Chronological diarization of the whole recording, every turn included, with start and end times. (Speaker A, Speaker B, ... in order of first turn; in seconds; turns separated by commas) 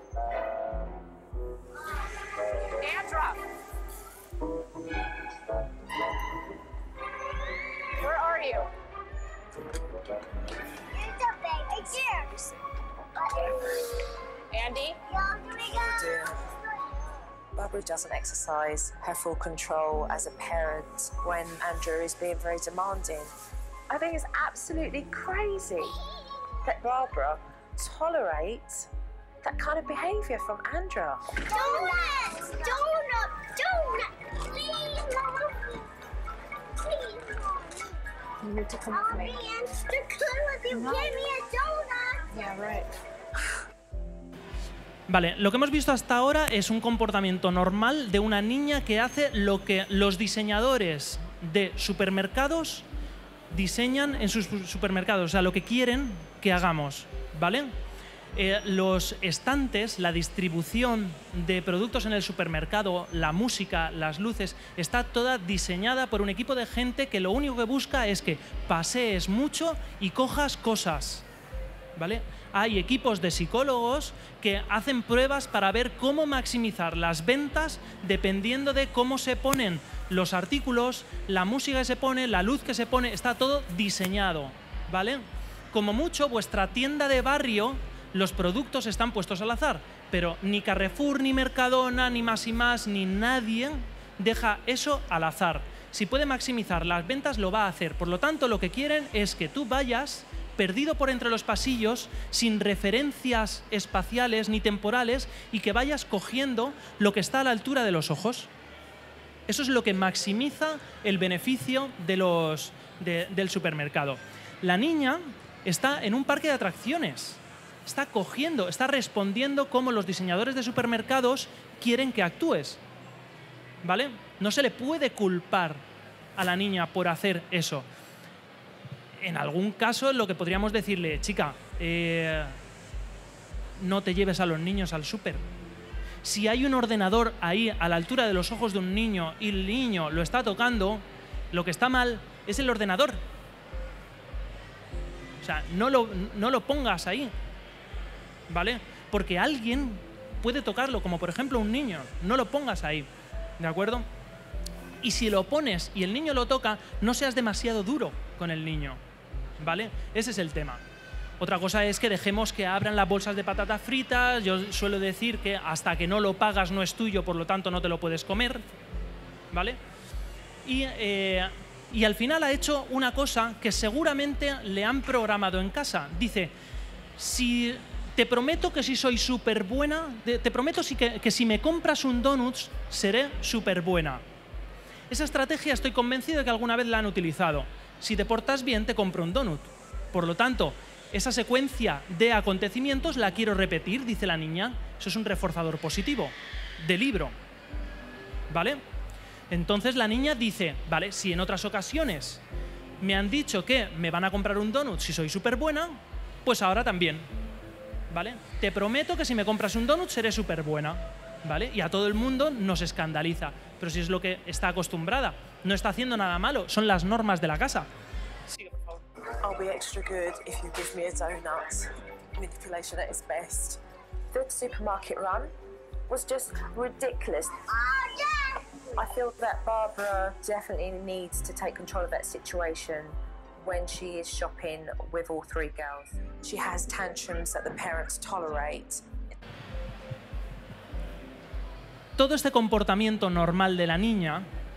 Speaker A: 2.8-3.4, Speaker A: 8.0-8.7, Speaker B: 10.9-12.4, Speaker B: 13.2-14.0, Speaker A: 14.5-15.0, Speaker B: 15.1-16.5, Speaker C: 15.8-16.3, Speaker C: 17.5-23.3, Speaker C: 23.9-26.0, Speaker C: 26.6-28.9, Speaker C: 29.4-31.4, Speaker B: 31.4-35.8, Speaker B: 36.8-38.0, Speaker A: 38.4-39.3, Speaker B: 38.9-42.3, Speaker A: 40.7-41.1, Speaker A: 42.3-42.9, Speaker D: 45.1-52.9, Speaker D: 53.5-57.7, Speaker D: 58.3-71.2, Speaker D: 72.0-108.5, Speaker D: 109.5-122.8, Speaker D: 123.8-125.8, Speaker D: 126.3-127.8, Speaker D: 129.2-132.6, Speaker D: 133.8-135.4, Speaker D: 136.2-143.2, Speaker D: 145.4-147.3, Speaker D: 148.5-154.1, Speaker D: 155.0-159.0, Speaker D: 159.6-160.8, Speaker D: 161.4-168.6, Speaker D: 169.5-169.8, Speaker D: 170.6-176.5, Speaker D: 177.2-184.2, Speaker D: 185.1-197.3, Speaker D: 198.5-198.8, Speaker D: 199.5-202.4, Speaker D: 203.0-207.3, Speaker D: 208.1-217.9, Speaker D: 218.5-218.9, Speaker C: 219.4-223.8, Speaker C: 224.3-225.5, Speaker C: 226.1-227.6, Speaker B: 227.7-228.7, Speaker C: 228.9-239.0, Speaker D: 242.2-244.5